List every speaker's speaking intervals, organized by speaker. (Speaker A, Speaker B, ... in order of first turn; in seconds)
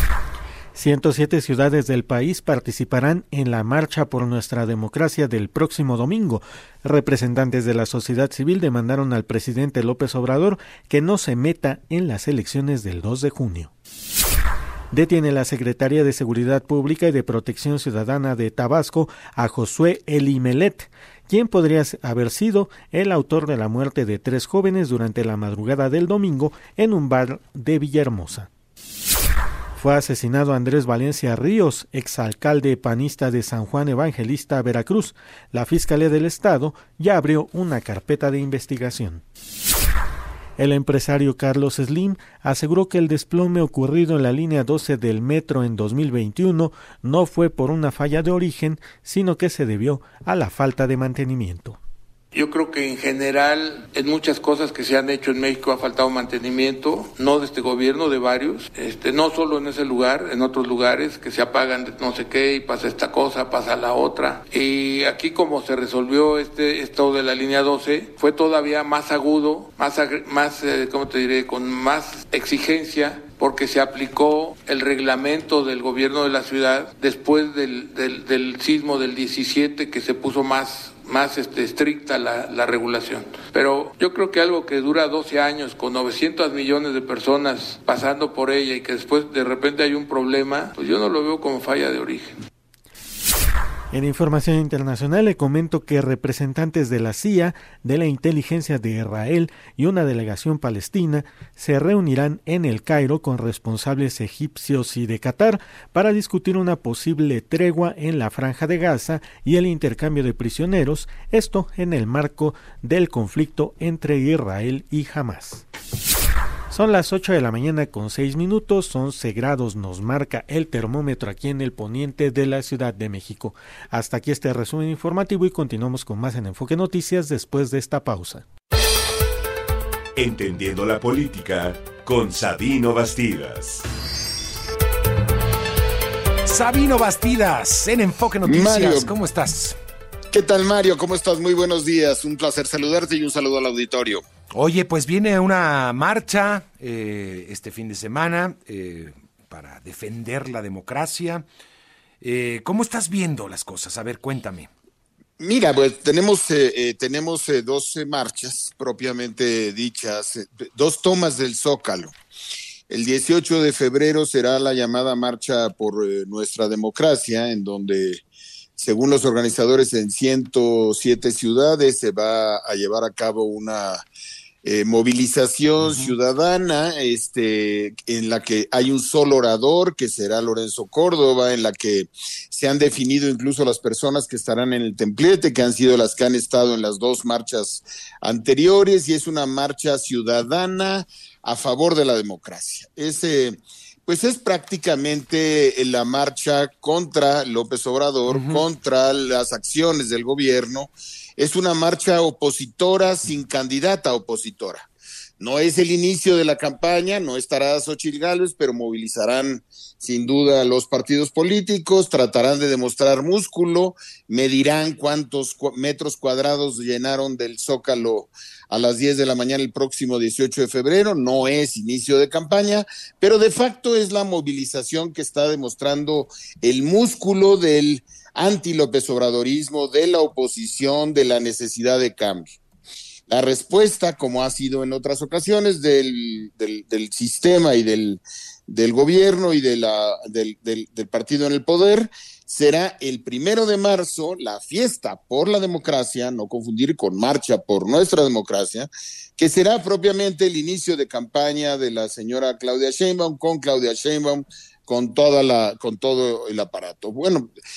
Speaker A: 0.8-13.7, 14.9-28.5, 29.8-39.2, 40.6-51.8, 93.9-115.7, 116.7-128.5
Speaker B: 52.3-92.4
Speaker C: 130.2-133.8
Speaker D: 136.4-139.8, 144.5-151.4, 152.2-154.7, 175.8-176.1, 198.3-198.6
Speaker E: 138.4-139.1, 140.3-144.2, 155.4-162.2, 162.9-168.2, 168.8-174.1, 174.6-204.9, 205.4-232.6, 233.3-257.5